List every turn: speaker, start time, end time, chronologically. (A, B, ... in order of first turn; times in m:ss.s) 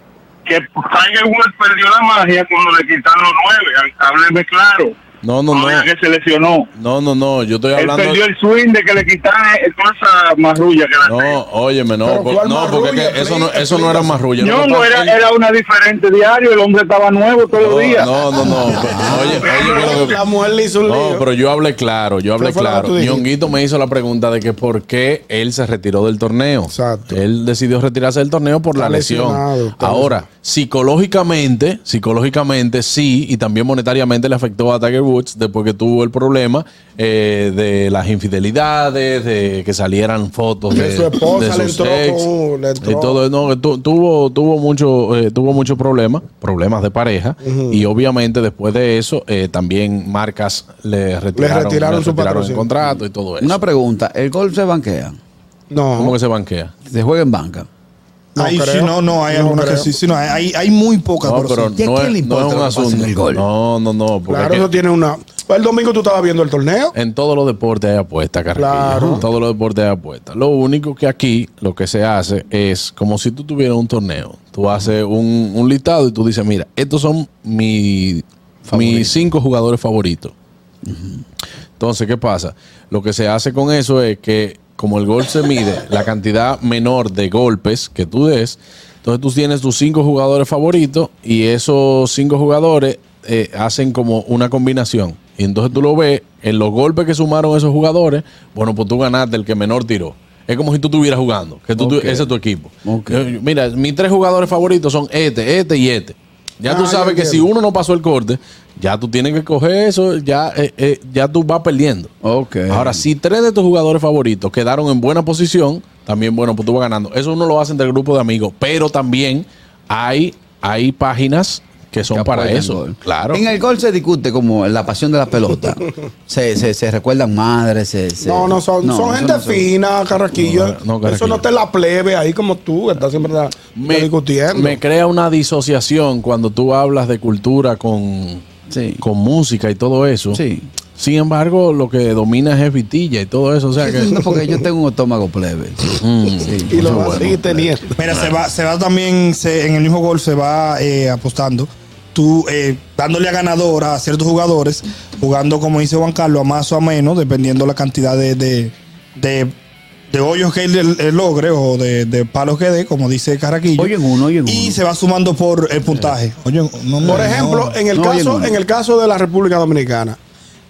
0:00.5-0:04.9 A
0:05.2-0:05.9 B
0:05.5-0:06.7 A
0:06.8-0:08.2 B
0:07.8-0:11.4 A
0:11.1-0:15.2 B
0:12.0-0:14.2 C
0:14.4-0:18.1 A
0:17.6-0:20.2 B
0:18.6-0:19.4 D
0:18.9-0:21.3 C
0:20.8-0:42.3 B
0:22.4-0:23.3 C
0:26.7-0:27.2 C
0:28.8-0:30.2 C
0:40.7-0:43.2 C
0:42.8-0:53.6 B
0:47.4-0:47.8 C
0:51.4-0:52.8 C
0:53.4-0:55.2 D
0:55.7-0:56.2 C
0:56.0-0:56.7 B
0:56.8-0:57.7 D
0:58.4-0:59.9 C
0:58.4-1:01.7 E
1:01.2-1:04.7 B
1:01.8-1:03.5 D
1:04.3-1:06.9 C
1:06.9-1:20.3 B
1:08.6-1:09.3 C
1:08.9-1:09.2 D
1:18.7-1:19.3 D
1:20.8-1:21.2 D
1:21.8-1:52.1 B
1:41.8-1:42.3 D
1:42.8-1:43.2 D
1:46.7-1:47.5 C
1:52.2-1:53.0 D
1:52.7-2:03.4 B
2:02.1-2:09.7 D
2:08.2-2:14.8 C
2:10.3-2:11.5 B
2:13.8-2:18.4 B
2:18.7-2:19.0 D
2:19.0-2:20.4 B
2:20.3-2:20.7 D
2:21.0-2:24.2 B
2:23.8-2:27.6 D
2:26.0-2:27.4 B
2:26.7-2:28.0 C
2:28.0-2:39.5 E
2:40.1-2:47.8 E
2:43.8-2:44.8 D
2:47.0-2:50.2 C
2:47.9-2:48.6 D